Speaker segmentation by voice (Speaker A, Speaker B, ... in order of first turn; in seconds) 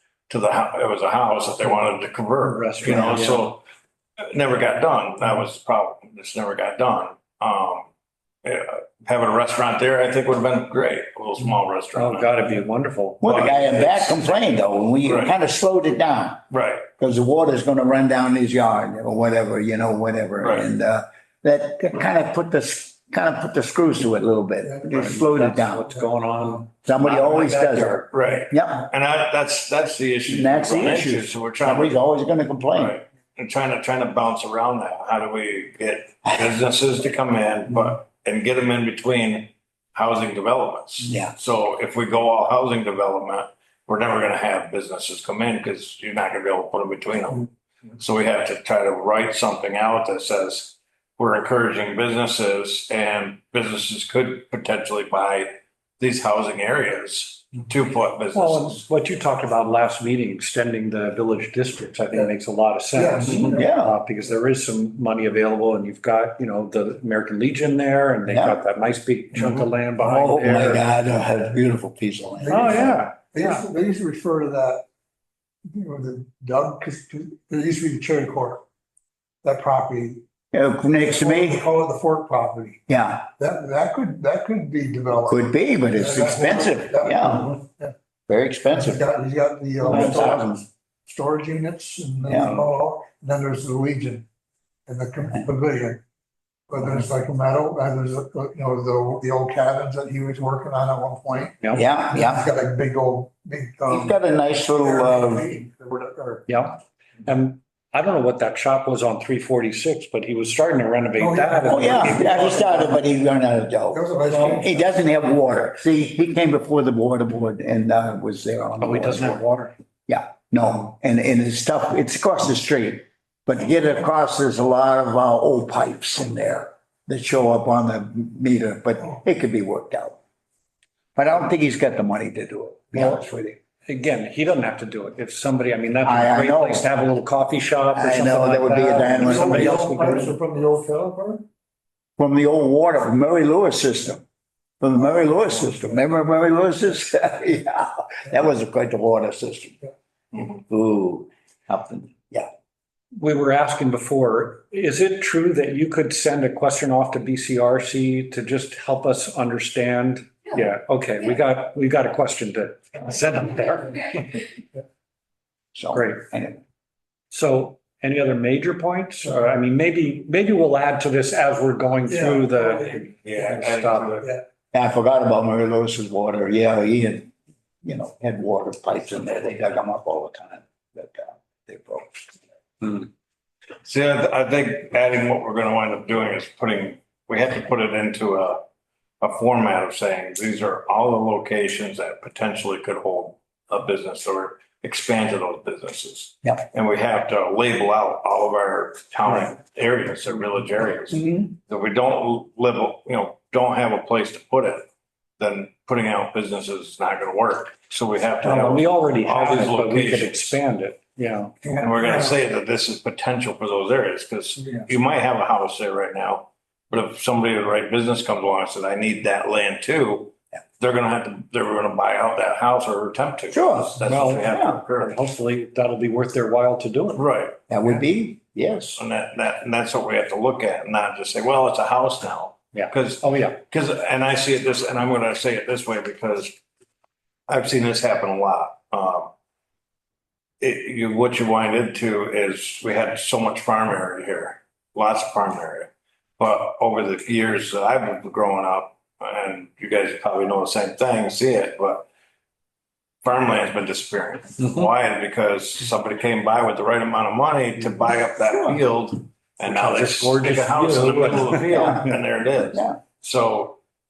Speaker A: 0.3-3.6, 4.3-7.9, 8.4-12.4, 13.2-14.1, 15.0-15.3, 16.5-16.9, 20.4-20.7, 28.1-32.0, 32.7-58.8, 69.4-69.7, 173.2-174.3, 183.8-188.6, 189.2-204.8, 205.4-210.6, 211.8-225.2, 227.1-227.6, 228.9-236.6, 237.5-239.3, 240.6-252.1, 253.2-263.8
Speaker B: 2.4-3.5, 11.9-14.1, 24.9-28.1, 58.3-70.8, 72.5-73.6, 106.5-112.9, 114.3-114.6, 118.8-119.7, 132.9-133.2, 133.8-140.3, 153.2-164.4, 165.9-166.2, 167.3-174.3, 208.4-211.5, 224.0-227.2, 232.7-233.6, 259.6-262.1
Speaker C: 2.9-3.1, 13.2-16.4, 17.0-25.9, 26.8-28.9, 30.3-33.0, 41.0-41.3, 63.2-64.0, 68.3-68.6, 70.0-73.0, 80.5-81.6, 82.9-83.3, 85.2-87.5, 88.3-89.0, 89.8-90.6, 92.3-92.7, 101.7-102.4, 103.9-105.5, 111.7-119.4, 120.1-130.2, 131.2-133.6, 136.0-136.9, 137.9-139.9, 142.2-144.2, 144.8-149.8, 150.7-152.5, 165.7-166.6, 174.7-177.3, 177.8-182.3, 201.1-201.5, 223.5-224.8, 227.7-229.0, 261.7-262.1, 262.7-263.0
Speaker D: 24.6-25.1, 62.9-63.7, 72.4-74.8, 75.7-78.6, 79.4-80.2, 81.0-82.8, 83.4-87.9, 88.7-94.2, 94.9-96.0, 96.7-104.2, 104.8-106.5, 111.2-113.0, 113.9-114.8, 139.1-141.4, 172.1-173.1, 211.6-212.3